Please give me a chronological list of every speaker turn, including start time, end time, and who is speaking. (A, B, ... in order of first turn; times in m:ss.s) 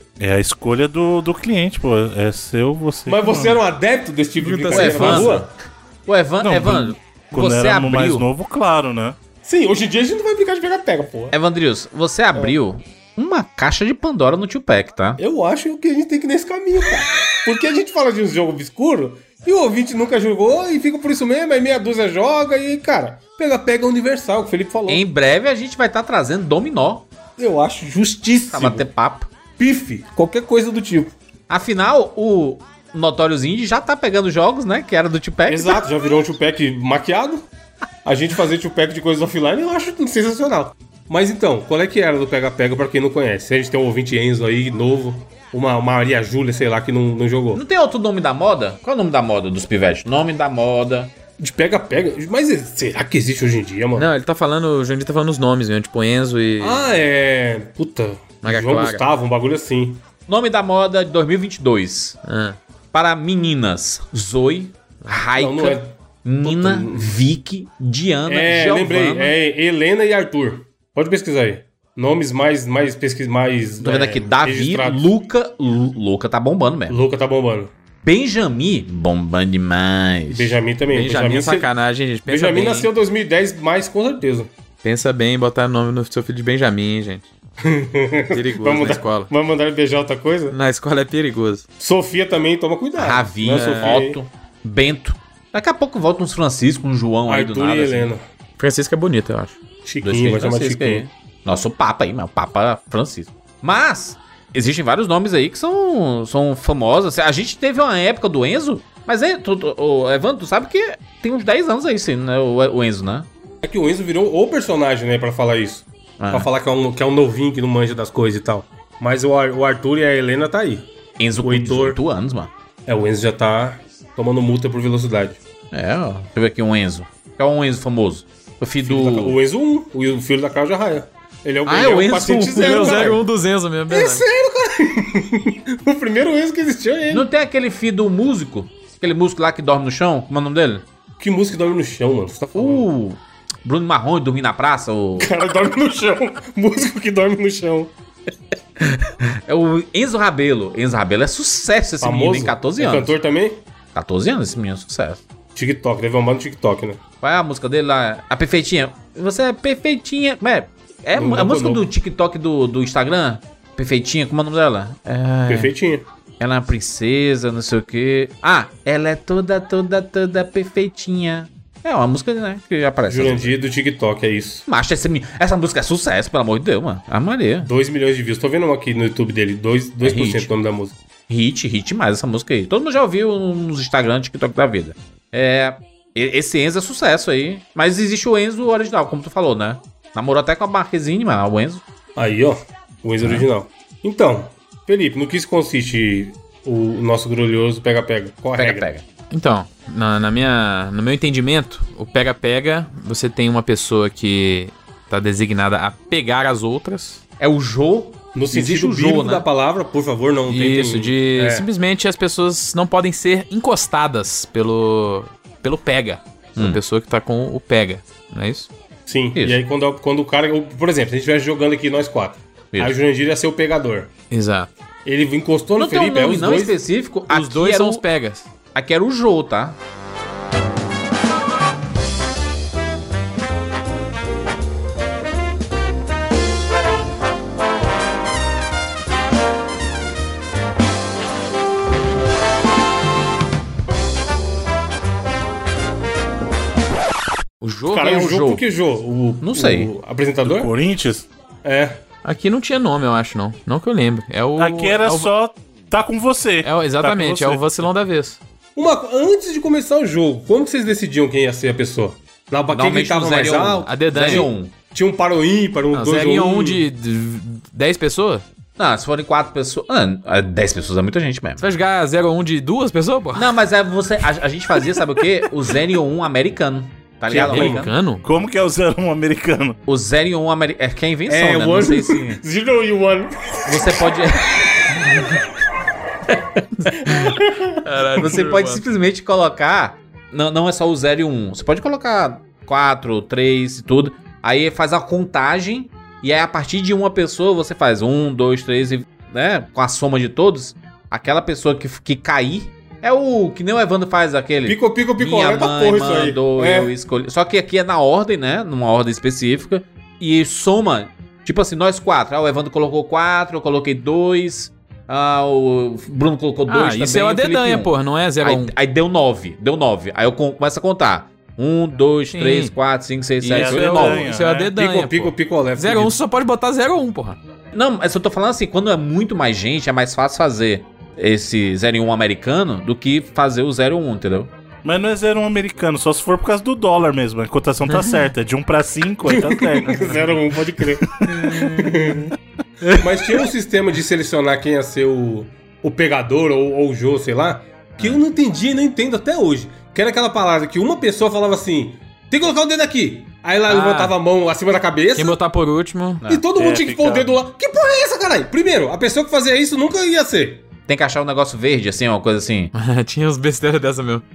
0:00.2-0:03.6 A
0:03.1-0:05.5 B
0:04.4-0:05.4 C
0:04.7-0:08.2 D
0:06.4-0:09.2 A
0:09.4-0:11.4 B
0:11.3-0:15.2 D
0:15.2-0:25.0 B
0:24.9-0:27.1 D
0:27.4-0:28.8 B
0:28.5-0:29.3 D
0:29.6-0:31.1 B
0:31.5-0:35.8 D
0:35.5-0:37.4 B
0:38.0-0:47.6 B
0:47.5-0:51.1 D
0:51.4-0:54.1 B
0:54.0-0:56.9 C
0:56.6-1:00.0 B
0:58.4-0:59.0 C
1:00.3-1:02.2 D
1:02.2-1:02.6 C
1:02.9-1:09.3 D
1:05.3-1:07.1 B
1:08.3-1:15.1 B
1:13.8-1:17.0 D
1:16.9-1:17.7 B
1:18.0-1:20.6 D
1:20.3-1:21.7 B
1:20.9-1:22.9 C
1:22.2-1:24.5 B
1:24.8-1:27.3 C
1:27.6-1:30.6 B
1:28.3-1:29.3 C
1:30.5-1:31.6 C
1:31.8-1:34.2 B
1:32.9-1:38.1 D
1:33.6-1:34.0 C
1:37.3-1:38.2 B
1:38.6-1:39.6 C
1:39.8-1:41.1 B
1:40.0-1:53.3 D
1:53.6-2:00.8 B
1:56.2-1:56.5 D
2:01.2-2:02.5 D
2:01.4-2:02.0 B
2:02.8-2:05.4 B
2:05.7-2:09.4 D
2:08.8-2:13.2 B
2:11.7-2:13.1 D
2:11.7-2:14.2 C
2:13.9-2:17.3 B
2:17.1-2:20.8 D
2:21.2-2:22.9 B
2:22.5-2:25.3 D
2:25.2-2:27.9 B
2:28.8-2:33.1 D
2:32.0-2:33.6 B
2:33.9-2:35.2 D
2:35.5-2:37.0 B
2:37.2-2:45.7 D
2:41.2-2:41.9 B
2:45.5-2:46.0 B
2:46.4-2:53.5 D
2:53.1-2:54.6 B
2:54.7-2:57.7 D
2:57.6-3:01.0 B
3:00.0-3:00.5 D
3:01.3-3:11.8 D
3:12.2-3:18.9 B
3:18.6-3:19.0 D
3:19.3-3:27.2 C
3:27.4-3:29.4 D
3:28.3-3:31.6 B
3:30.5-3:38.7 C
3:39.1-3:44.1 B
3:39.3-3:39.6 D
3:44.3-3:44.7 C
3:45.0-3:46.8 B
3:45.8-3:48.0 D
3:47.3-3:48.5 C
3:48.7-3:49.8 D
4:07.6-4:08.6 C
4:07.9-4:10.7 B
4:09.4-4:09.9 D
4:10.4-4:11.3 A
4:11.6-4:12.0 B
4:12.2-4:15.3 C
4:14.6-4:17.6 A
4:16.6-4:18.4 C
4:18.8-4:26.8 B
4:22.7-4:24.7 D
4:23.8-4:24.5 C
4:25.9-4:28.4 C
4:28.8-4:31.6 D
4:31.6-4:33.5 C
4:33.3-4:37.9 D
4:37.3-4:37.9 B
4:37.5-4:38.2 C
4:38.2-4:39.8 A
4:39.8-4:42.4 D
4:41.3-4:44.1 B
4:43.6-4:45.2 D
4:46.3-4:47.1 D
4:47.0-4:47.8 B
4:47.8-4:48.8 C
4:48.2-5:24.2 D
5:04.6-5:06.9 B
5:16.7-5:18.7 C
5:22.3-5:22.7 C
5:23.4-5:27.4 C
5:23.5-5:24.7 A
5:24.7-5:26.1 B
5:27.7-5:34.5 D
5:34.8-5:40.4 A
5:37.9-5:38.3 C
5:39.3-5:41.1 B
5:41.0-5:41.7 A
5:41.3-5:42.2 C
5:41.6-5:42.3 B
5:42.8-5:43.3 A
5:43.0-5:55.3 B
5:53.6-5:54.2 C
5:55.1-5:56.2 C
5:56.2-6:00.6 B
5:56.5-5:57.4 A
6:00.9-6:02.7 D
6:02.7-6:04.2 C